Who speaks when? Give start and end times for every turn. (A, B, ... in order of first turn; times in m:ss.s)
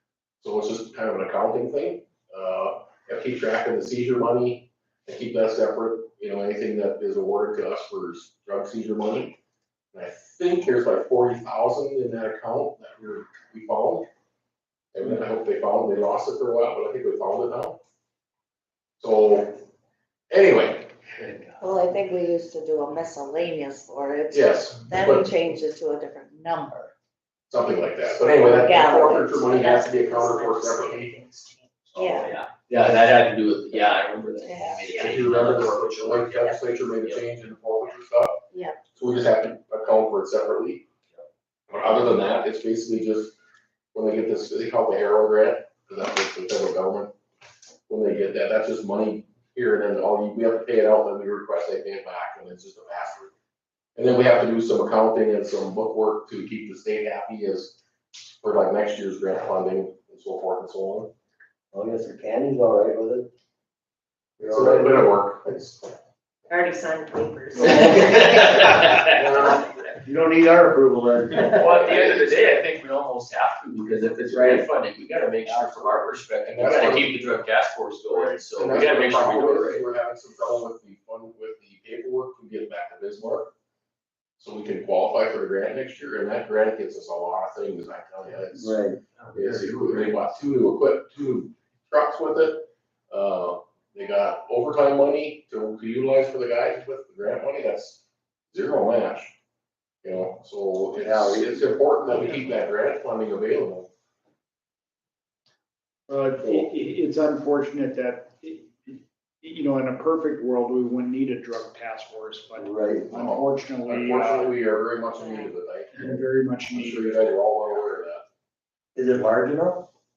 0:00.4-0:09.4 A
0:09.9-0:14.1 A
0:14.9-0:17.8 A
0:19.0-0:19.5 A
0:20.3-0:21.0 A
0:21.6-0:26.9 B
0:24.3-0:25.3 A
0:27.5-0:31.2 A
0:28.4-0:32.3 B
0:31.9-0:37.2 C
0:34.4-0:35.2 B
0:35.0-0:40.8 A
0:38.5-0:38.8 B
0:41.7-0:43.4 A
0:43.9-0:47.1 A
0:47.9-0:53.3 A
0:54.0-0:57.8 A
0:58.4-1:01.1 A
1:01.7-1:03.3 D
1:04.4-1:05.1 D
1:04.5-1:05.8 A
1:06.5-1:08.6 B
1:07.6-1:08.6 D
1:08.4-1:09.1 C
1:08.9-1:09.6 A
1:10.0-1:12.2 D
1:11.4-1:19.8 C
1:14.2-1:14.6 D
1:15.5-1:16.0 D
1:16.5-1:17.1 A
1:18.5-1:23.5 A
1:24.4-1:28.8 A
1:28.6-1:29.0 D
1:29.3-1:30.1 C
1:29.3-1:39.3 A
1:40.0-1:43.9 A
1:41.0-1:41.7 D
1:46.1-1:54.5 E
1:52.6-1:53.4 D
1:53.8-1:56.0 A
1:55.9-1:57.4 E
1:56.7-1:58.2 A
1:59.0-1:59.9 D